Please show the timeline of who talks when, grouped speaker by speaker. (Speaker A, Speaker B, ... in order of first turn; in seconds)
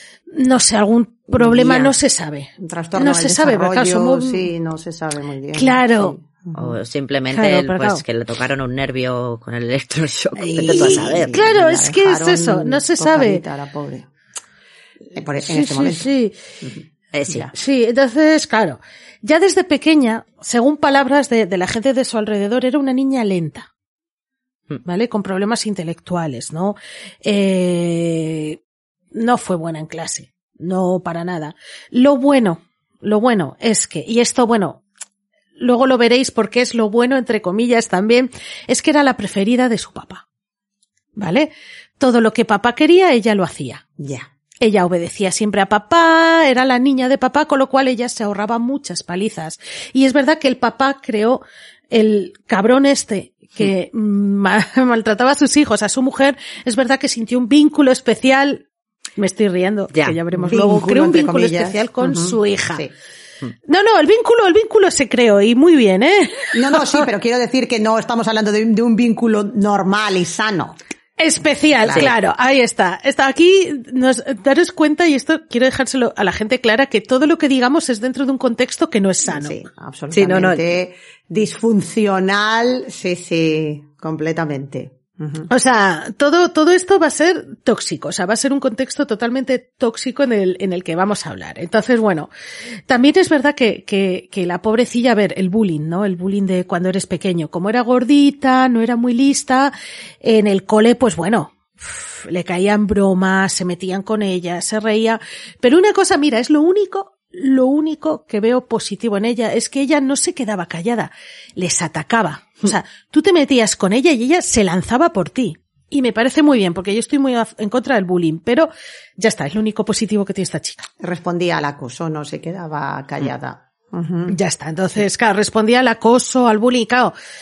Speaker A: 0.3-4.5, 5.5-6.2, 7.3-8.0, 10.4-13.4, 15.4-16.3, 17.5-23.7, 24.8-28.6, 29.1-34.8, 35.6-40.2, 41.1-43.8, 44.6-58.6, 59.2-62.8, 63.7-67.0, 71.2-79.5, 85.5-92.3, 92.9-120.9, 124.3-127.1
Speaker B: 1.3-1.9, 2.6-6.8, 10.4-14.1, 15.1-16.1, 16.6-17.5, 44.0-44.3, 60.3-62.9, 66.5-70.8, 71.8-72.1, 79.2-85.5, 121.0-124.3
Speaker C: 6.5-11.4, 17.1-17.5, 80.1-80.6